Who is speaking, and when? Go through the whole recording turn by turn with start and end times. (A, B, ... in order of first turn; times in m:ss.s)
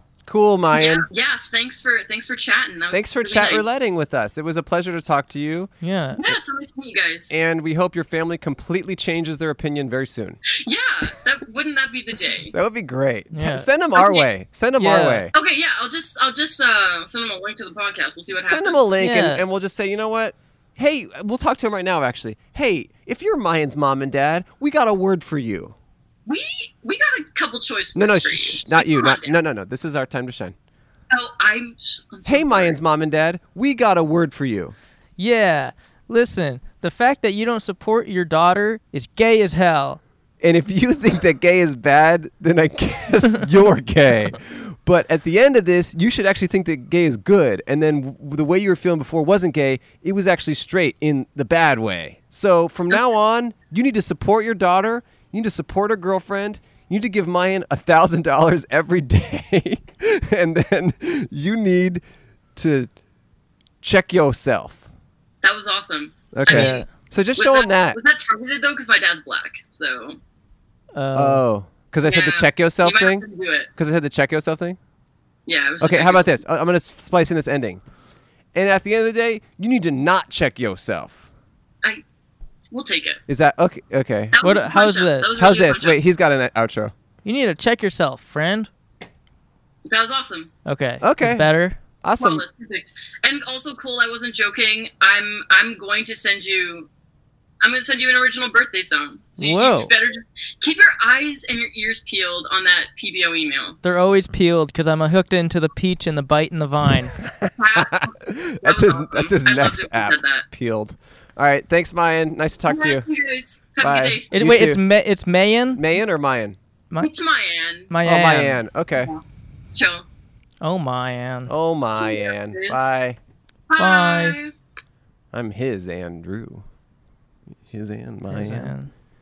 0:00.2-0:01.1 A
0:00.7-0:03.6 B
0:02.9-0:05.7 A
0:05.8-0:06.2 C
0:06.2-0:07.4 B
0:07.3-0:10.4 A
0:10.5-0:12.5 B
0:12.5-0:15.3 A
0:13.3-0:13.7 C
0:13.9-0:14.3 B
0:14.8-0:15.3 C
0:15.3-0:18.9 B
0:18.3-0:25.8 A
0:19.0-0:19.4 C
0:26.2-0:29.4 B
0:27.9-0:30.6 A
0:31.1-0:32.8 B
0:32.2-0:34.7 A
0:35.2-0:40.0 C
0:40.4-1:02.0 A
1:02.6-1:02.9 A
1:03.8-1:04.8 A
1:05.4-1:10.2 B
1:06.3-1:08.0 A
1:06.4-1:06.9 C
1:10.9-1:11.4 C
1:11.1-1:14.8 A
1:12.0-1:13.7 B
1:15.4-1:16.4 B
1:15.8-1:17.8 A
1:18.5-1:21.2 A
1:22.7-1:23.2 B
1:23.3-1:24.4 A
1:24.3-1:26.0 B
1:24.4-1:25.4 C
1:25.3-1:26.9 A
1:27.2-1:28.7 C
1:29.8-1:30.5 B
1:30.6-1:31.8 C
1:31.0-1:31.5 A
1:32.0-1:32.4 A
1:32.2-1:36.9 B
1:37.6-1:43.8 B
1:39.4-1:39.9 C
1:43.8-1:47.1 C
1:47.2-1:53.0 A
1:47.6-1:50.5 B
1:52.6-1:54.6 B
1:53.8-1:54.8 A
1:54.3-1:55.8 C
1:55.7-1:56.6 A
1:57.0-1:57.9 B
1:57.9-1:58.6 C
1:58.0-1:59.1 A
1:59.7-2:00.0 B
2:00.6-2:01.5 C
2:01.5-2:03.2 A
2:01.9-2:02.9 B
2:03.7-2:04.5 B
2:03.8-2:04.4 C
2:05.3-2:06.6 A
2:07.6-2:08.7 A
2:08.3-2:08.9 C